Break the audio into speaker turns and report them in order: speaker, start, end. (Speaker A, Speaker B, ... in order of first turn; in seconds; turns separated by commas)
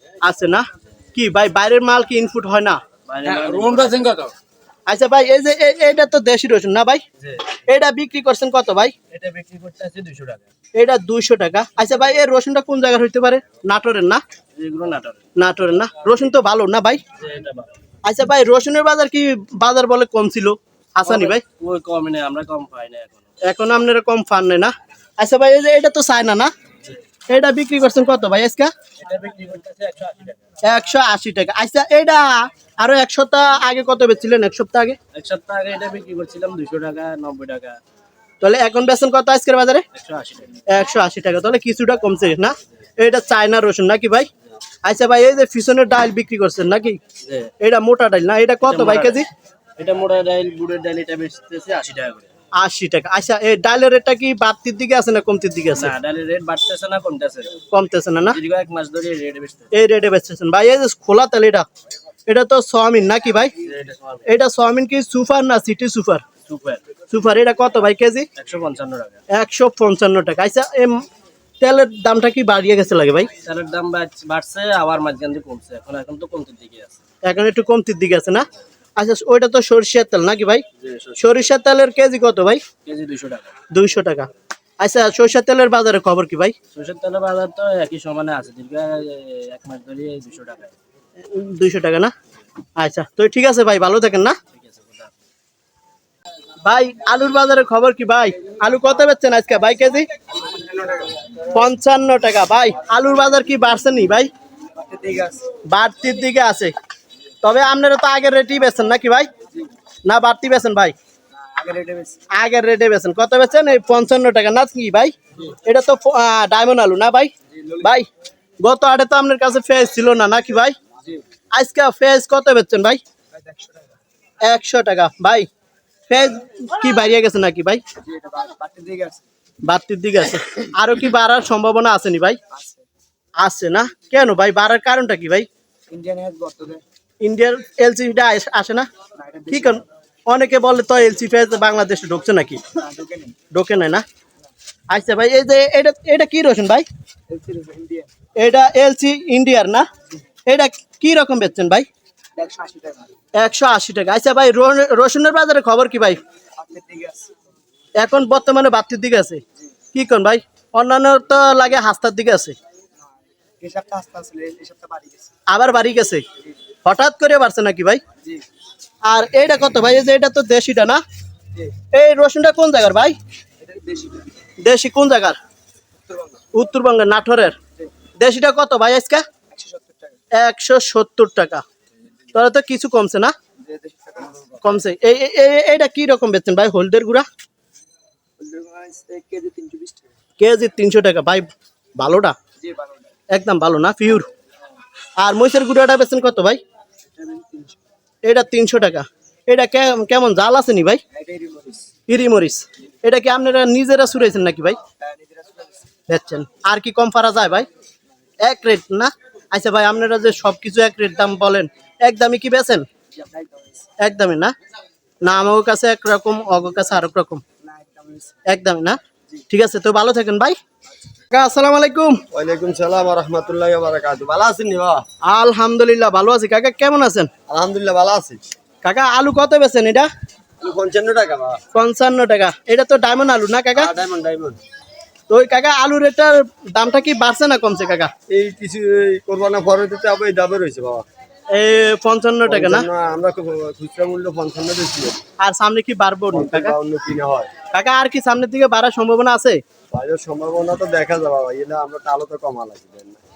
Speaker A: 0.2-2.8, Speaker B: 3.1-4.3, Speaker A: 4.9-7.0, Speaker A: 7.7-8.9, Speaker B: 9.1-10.4, Speaker A: 10.8-14.2, Speaker B: 14.6-15.2, Speaker A: 15.4-17.0, Speaker B: 17.2-17.7, Speaker A: 18.1-21.4, Speaker B: 21.1-23.3, Speaker A: 23.4-26.5, Speaker A: 27.3-28.7, Speaker B: 29.0-30.6, Speaker A: 30.6-35.0, Speaker B: 35.1-37.8, Speaker A: 38.4-39.9, Speaker B: 39.9-40.6, Speaker A: 40.7-44.3, Speaker A: 44.8-47.0, Speaker B: 47.2-47.5, Speaker A: 47.6-49.3, Speaker B: 48.6-49.2, Speaker B: 49.8-52.3, Speaker A: 52.6-55.9, Speaker B: 55.8-57.6, Speaker A: 57.7-58.4, Speaker B: 58.3-59.7, Speaker A: 59.7-61.7, Speaker A: 62.3-63.5, Speaker B: 63.6-64.3, Speaker A: 64.2-66.2, Speaker B: 66.5-66.8, Speaker A: 67.1-68.3, Speaker B: 68.4-69.2, Speaker A: 69.3-71.0, Speaker A: 71.6-73.3, Speaker B: 73.4-77.0, Speaker A: 77.2-78.5, Speaker A: 79.0-80.6, Speaker B: 80.8-81.2, Speaker A: 81.2-82.6, Speaker B: 82.8-83.5, Speaker A: 83.7-84.3, Speaker A: 84.8-86.5, Speaker B: 86.7-90.7, Speaker A: 91.2-92.1, Speaker A: 92.8-94.4, Speaker B: 94.5-95.1, Speaker A: 96.6-100.1, Speaker C: 100.6-101.0, Speaker A: 101.5-104.3, Speaker C: 104.8-105.5, Speaker A: 105.7-106.7, Speaker A: 107.4-109.3, Speaker A: 110.1-111.0, Speaker C: 111.4-112.2, Speaker A: 112.3-118.1, Speaker A: 118.6-120.8, Speaker A: 121.5-123.0, Speaker C: 123.3-124.0, Speaker A: 124.4-125.5, Speaker A: 126.1-127.8, Speaker C: 128.0-129.2, Speaker A: 129.6-132.4, Speaker C: 132.5-132.8, Speaker A: 133.4-135.5, Speaker C: 135.9-136.8, Speaker A: 137.2-138.9, Speaker C: 139.2-139.8, Speaker A: 139.5-142.7, Speaker C: 142.8-143.4, Speaker A: 143.5-144.1, Speaker A: 144.9-146.8, Speaker C: 147.3-148.1, Speaker A: 148.4-149.9, Speaker A: 150.5-151.9, Speaker C: 152.4-153.2, Speaker A: 153.4-156.2, Speaker C: 156.6-157.3, Speaker A: 158.0-159.4, Speaker A: 159.9-162.6, Speaker C: 163.0-165.3, Speaker A: 165.5-166.2, Speaker A: 166.8-168.0, Speaker A: 169.1-171.0, Speaker A: 171.9-173.2, Speaker C: 173.6-174.3, Speaker A: 174.6-175.4, Speaker C: 176.1-176.4, Speaker A: 176.5-177.6, Speaker A: 178.2-179.2, Speaker C: 179.5-180.2, Speaker A: 180.3-181.6, Speaker A: 182.3-183.3, Speaker C: 183.6-184.6, Speaker A: 184.6-187.3, Speaker C: 188.4-190.1, Speaker A: 190.4-192.3, Speaker C: 192.6-193.1, Speaker A: 193.3-194.3, Speaker A: 195.2-196.6, Speaker C: 197.1-197.8, Speaker A: 198.2-201.0, Speaker C: 201.1-201.9, Speaker A: 202.1-204.8, Speaker C: 205.0-205.9, Speaker A: 206.1-207.7, Speaker A: 208.4-212.9, Speaker C: 213.1-213.9, Speaker A: 214.0-214.5, Speaker A: 215.2-217.4, Speaker C: 217.6-218.4, Speaker A: 218.5-219.0, Speaker A: 219.5-220.6, Speaker A: 221.3-222.2, Speaker D: 222.3-225.1, Speaker A: 225.3-227.3, Speaker D: 227.5-228.4, Speaker A: 228.8-230.1, Speaker D: 230.6-231.6, Speaker A: 231.7-233.9, Speaker D: 233.8-234.6, Speaker A: 235.3-238.1, Speaker D: 238.3-241.1, Speaker A: 241.5-242.9, Speaker D: 242.5-245.2, Speaker A: 245.4-246.8, Speaker D: 246.3-247.5, Speaker A: 247.7-249.6, Speaker D: 249.9-253.2